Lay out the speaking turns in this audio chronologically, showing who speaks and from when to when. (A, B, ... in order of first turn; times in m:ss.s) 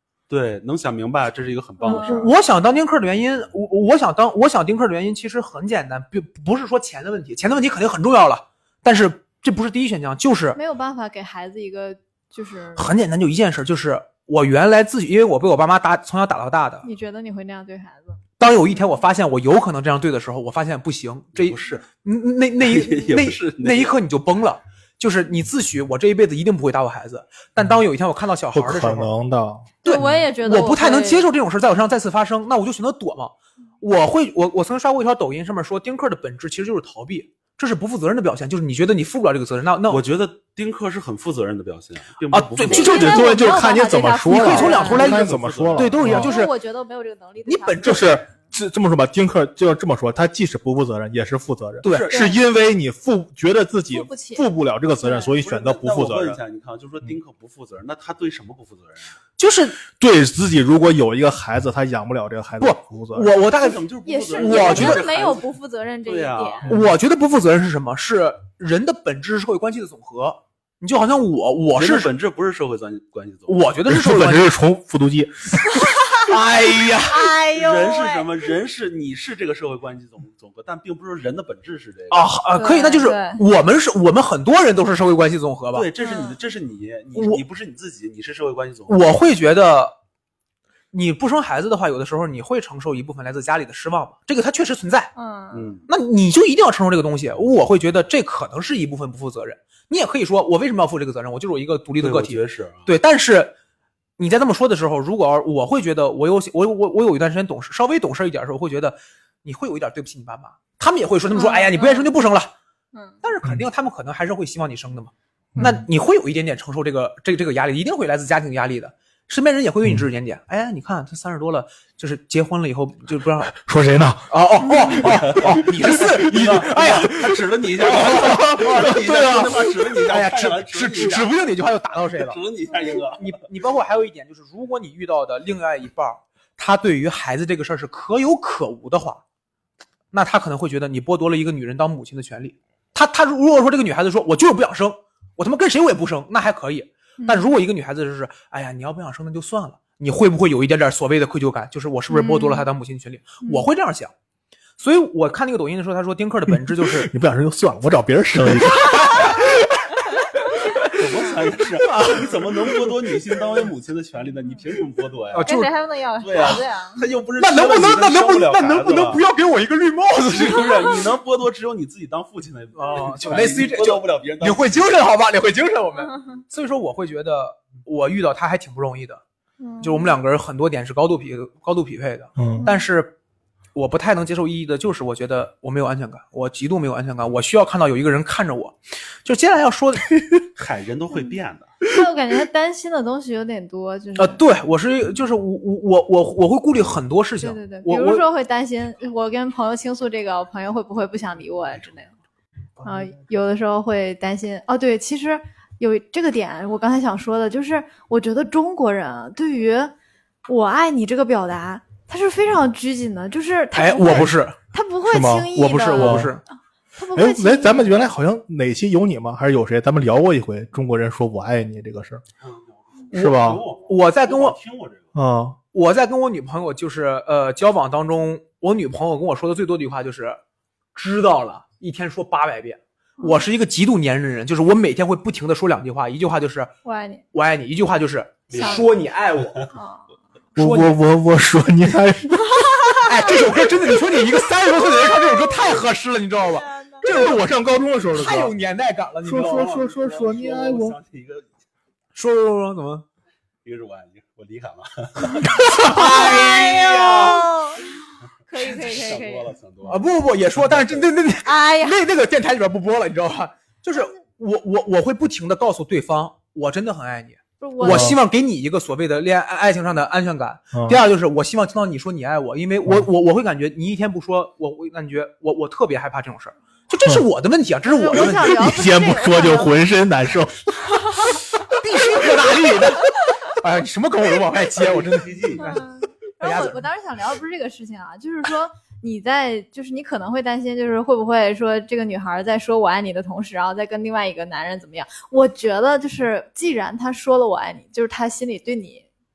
0:00.3-0:02.3 A
0:01.8-0:02.3 B
0:01.8-0:10.6 C
0:10.6-0:12.9 B
0:12.8-0:16.9 C
0:16.8-0:18.2 B
0:18.4-0:29.1 C
0:21.4-0:21.8 A
0:22.6-0:24.0 A
0:28.5-0:30.2 D
0:29.8-0:31.3 B
0:29.8-0:40.0 C
0:39.9-0:43.3 A
0:42.3-0:43.2 C
0:42.6-0:46.4 D
0:42.7-0:45.2 B
0:44.3-0:46.5 C
0:44.5-0:46.0 A
0:46.0-0:48.2 B
0:47.5-0:48.2 C
0:47.8-0:56.4 D
0:51.8-0:52.4 C
0:51.8-0:52.4 A
0:53.9-0:54.4 B
0:55.0-0:55.3 B
0:55.4-0:59.1 A
0:59.4-0:59.8 C
1:00.0-1:03.3 D
1:02.6-1:05.0 C
1:03.5-1:05.5 A
1:04.1-1:06.7 B
1:06.1-1:06.8 A
1:06.7-1:12.1 C
1:11.8-1:13.7 A
1:13.5-1:14.5 C
1:13.9-1:15.6 D
1:15.8-1:16.2 B
1:16.1-1:17.3 C
1:17.1-1:18.3 B
1:17.5-1:22.2 A
1:22.1-1:25.9 C
1:22.6-1:23.4 B
1:25.7-1:29.0 A
1:26.0-1:26.4 B
1:27.2-1:27.4 C
1:28.9-1:29.9 C
1:30.9-1:35.1 C
1:35.2-1:35.8 B
1:35.5-1:35.9 A
1:35.9-1:43.5 C
1:42.0-1:42.9 A
1:44.2-1:52.5 C
1:51.4-1:52.1 B
1:52.9-1:53.2 B
1:53.2-2:03.5 C
1:55.6-1:55.8 D
2:03.5-2:06.0 D
2:04.3-2:12.4 C
2:05.0-2:11.3 A
2:08.7-2:08.9 D
2:12.2-2:13.3 A
2:13.1-2:19.2 C
2:20.1-2:34.1 C
2:27.2-2:27.5 B
2:32.1-2:32.7 B
2:33.4-2:33.7 B
2:34.8-2:37.1 C
2:36.5-2:39.6 D
2:38.8-2:39.4 C
2:40.5-2:41.0 C
2:40.9-2:45.6 A
2:41.8-2:42.5 C
2:45.3-2:45.7 C
2:45.4-2:47.0 B
2:46.2-2:49.2 A
2:47.4-2:51.0 C
2:50.3-2:54.9 A
2:52.8-2:59.2 C
2:59.6-3:00.2 B
2:59.8-3:03.1 C
3:02.4-3:02.7 D
3:02.6-3:02.9 B
3:03.8-3:10.4 C
3:10.6-3:11.7 A
3:11.1-3:14.4 B
3:14.2-3:18.2 C
3:17.4-3:22.1 B
3:22.8-3:29.9 B
3:30.5-3:36.3 B
3:33.8-3:34.6 C
3:35.1-3:36.3 D
3:35.5-3:36.4 C
3:37.0-3:38.0 B
3:37.2-3:42.2 D
3:42.4-3:45.1 A
3:43.1-3:44.6 C
3:43.1-3:43.6 D
3:45.2-3:45.6 D
3:45.7-3:50.4 C
3:51.0-3:56.7 C
3:56.8-3:57.2 B
3:57.3-3:59.6 C
3:58.5-3:59.7 A
3:58.5-3:58.8 B
3:59.7-4:00.1 B
4:00.6-4:01.0 C
4:00.6-4:02.8 D
4:02.6-4:03.0 B
4:03.0-4:07.4 C
4:06.5-4:07.1 B
4:07.0-4:08.5 D
4:08.1-4:09.8 C
4:09.2-4:11.0 D
4:09.4-4:11.5 A
4:12.2-4:13.0 C
4:13.6-4:16.8 A
4:15.4-4:17.5 C
4:15.9-4:17.9 B
4:18.5-4:19.5 B
4:18.5-4:21.1 A
4:19.9-4:38.6 C
4:21.4-4:22.0 B
4:27.6-4:28.2 B
4:27.8-4:28.2 D
4:30.7-4:31.0 D
4:37.8-4:39.8 B
4:38.2-4:40.6 D
4:41.7-4:45.8 C
4:44.7-4:46.0 A
4:45.6-4:59.1 B
4:46.4-4:46.8 C